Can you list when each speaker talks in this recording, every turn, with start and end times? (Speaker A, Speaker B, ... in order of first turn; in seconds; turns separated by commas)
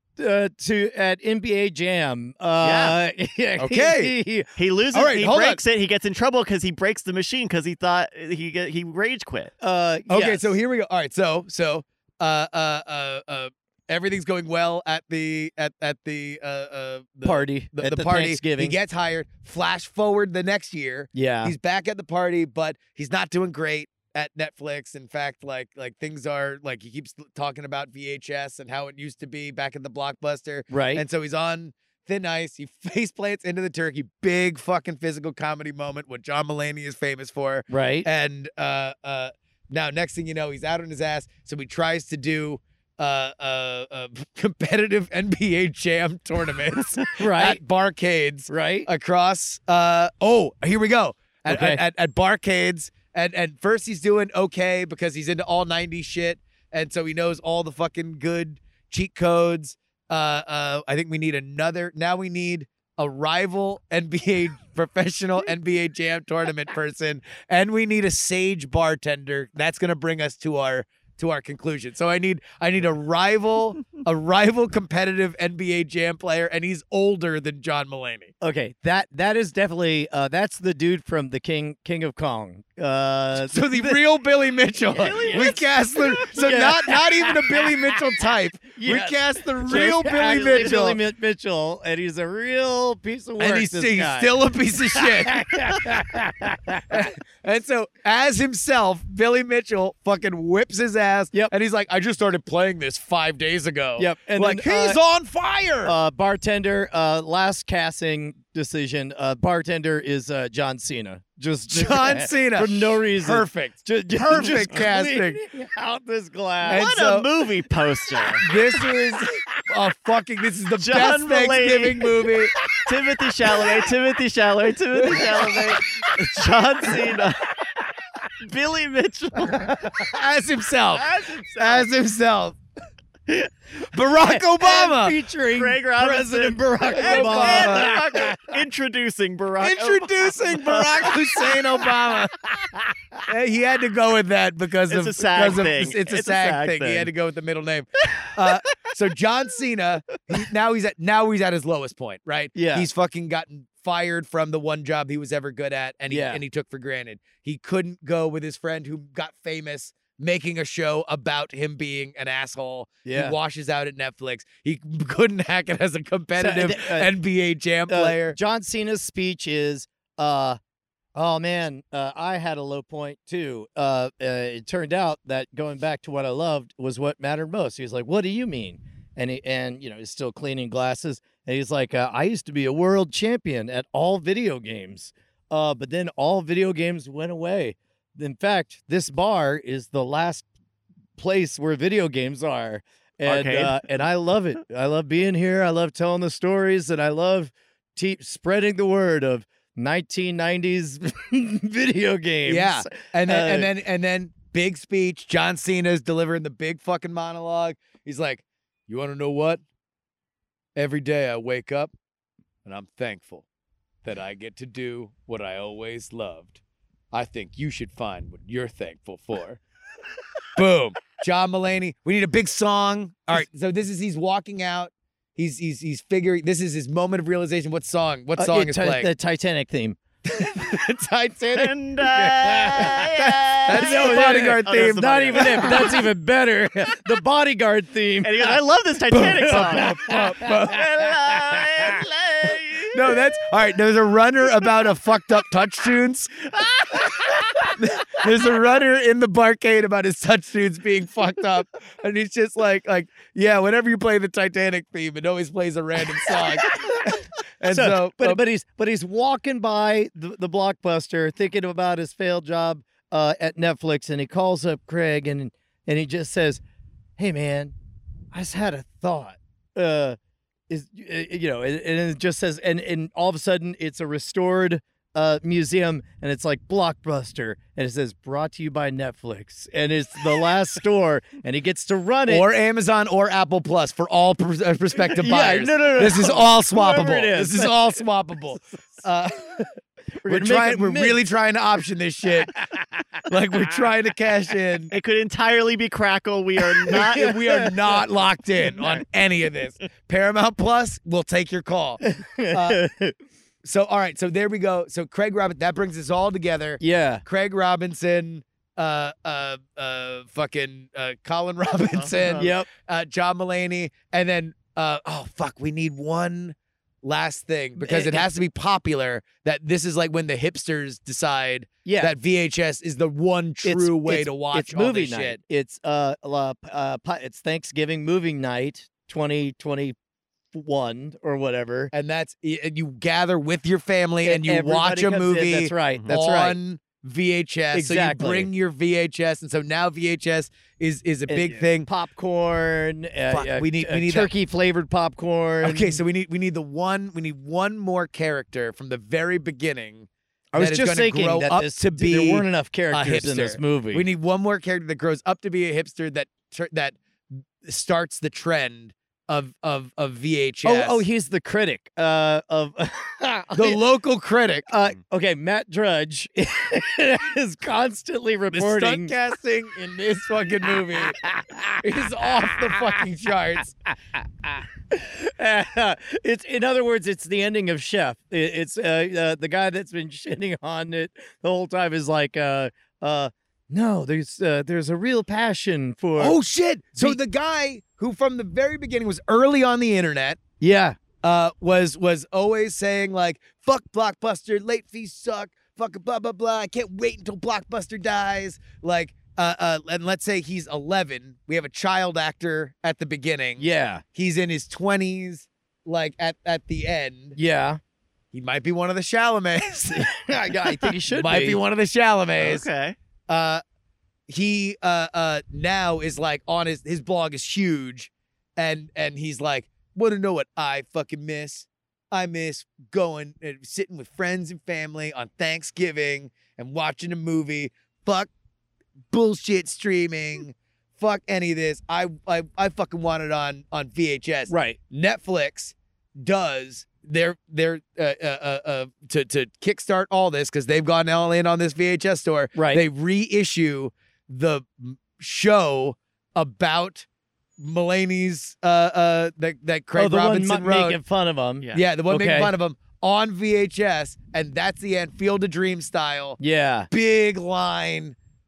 Speaker A: 0.2-4.5, Speaker B: 2.6-3.0, Speaker C: 3.6-4.1, Speaker B: 4.6-9.5, Speaker C: 4.9-5.6, Speaker A: 9.6-10.6, Speaker C: 10.1-78.3, Speaker A: 17.2-18.8, Speaker A: 21.1-21.5, Speaker A: 30.7-31.0, Speaker A: 37.7-38.1, Speaker A: 47.2-47.6, Speaker A: 48.5-48.9, Speaker A: 51.5-51.8, Speaker A: 78.4-84.0, Speaker C: 83.4-91.0, Speaker A: 84.9-85.6, Speaker B: 84.9-86.5, Speaker A: 86.2-88.0, Speaker A: 88.7-94.3, Speaker C: 93.4-95.9, Speaker A: 94.9-97.1, Speaker C: 96.9-105.9, Speaker A: 104.0-105.0, Speaker A: 105.8-116.8, Speaker C: 111.7-115.4, Speaker C: 116.7-117.3, Speaker B: 116.7-118.5, Speaker C: 118.4-122.5, Speaker B: 120.8-122.1, Speaker B: 122.8-127.6, Speaker A: 125.0-126.4, Speaker B: 128.4-129.9, Speaker A: 129.5-130.1, Speaker C: 129.9-132.6, Speaker B: 130.9-131.9, Speaker C: 133.9-135.2, Speaker A: 134.2-138.5, Speaker B: 135.5-141.6, Speaker C: 136.9-138.0, Speaker C: 139.6-142.4, Speaker C: 143.3-168.4, Speaker B: 144.9-147.1, Speaker A: 152.5-152.9, Speaker A: 156.1-156.4, Speaker A: 163.1-163.3, Speaker A: 166.4-167.1, Speaker A: 167.9-170.6, Speaker A: 171.1-190.4, Speaker A: 191.2-203.7, Speaker B: 193.2-193.8, Speaker C: 202.5-209.6, Speaker C: 210.8-211.9, Speaker C: 212.6-213.4, Speaker C: 214.0-216.6, Speaker C: 217.1-219.6, Speaker C: 220.5-229.1, Speaker A: 228.4-230.0, Speaker C: 230.2-235.9, Speaker B: 231.5-236.1, Speaker A: 233.7-238.6, Speaker B: 238.2-243.1, Speaker C: 239.1-240.8, Speaker A: 239.2-240.8, Speaker C: 242.9-246.5, Speaker B: 246.6-247.0, Speaker C: 247.7-258.4, Speaker A: 257.7-266.6, Speaker A: 267.2-267.7, Speaker A: 268.3-270.2, Speaker A: 270.7-282.4, Speaker C: 282.3-289.6, Speaker A: 285.1-287.8, Speaker A: 290.2-291.2, Speaker C: 290.2-292.6, Speaker A: 292.7-293.0, Speaker C: 293.2-294.9, Speaker B: 294.9-297.4, Speaker A: 296.8-297.7, Speaker C: 296.9-302.8, Speaker B: 298.7-299.0, Speaker A: 302.0-303.1, Speaker C: 303.6-325.4, Speaker A: 306.8-307.2, Speaker B: 311.8-312.5, Speaker A: 312.4-312.7, Speaker A: 317.8-318.3, Speaker A: 321.9-322.1, Speaker A: 323.6-329.9, Speaker A: 330.5-331.9, Speaker C: 331.9-341.9, Speaker A: 334.2-336.6, Speaker A: 337.7-338.5, Speaker A: 341.3-346.0, Speaker C: 343.3-344.3, Speaker C: 345.6-357.0, Speaker A: 350.5-354.1, Speaker C: 357.6-361.0, Speaker A: 360.6-363.8, Speaker C: 363.5-364.6, Speaker A: 364.7-369.1, Speaker C: 368.5-371.2, Speaker A: 371.1-371.8, Speaker C: 371.8-373.7, Speaker A: 374.4-386.4, Speaker C: 386.2-390.4, Speaker A: 390.6-391.0, Speaker C: 391.2-407.4, Speaker A: 403.6-404.0, Speaker A: 407.4-407.8, Speaker C: 408.3-412.7, Speaker A: 409.9-411.6, Speaker B: 412.4-413.0, Speaker C: 413.3-413.6, Speaker C: 414.3-428.3, Speaker C: 429.1-447.1, Speaker A: 434.5-434.8, Speaker A: 442.5-442.9, Speaker C: 447.6-451.0, Speaker A: 449.9-452.5, Speaker C: 451.7-456.4, Speaker A: 456.4-456.9, Speaker C: 456.9-458.1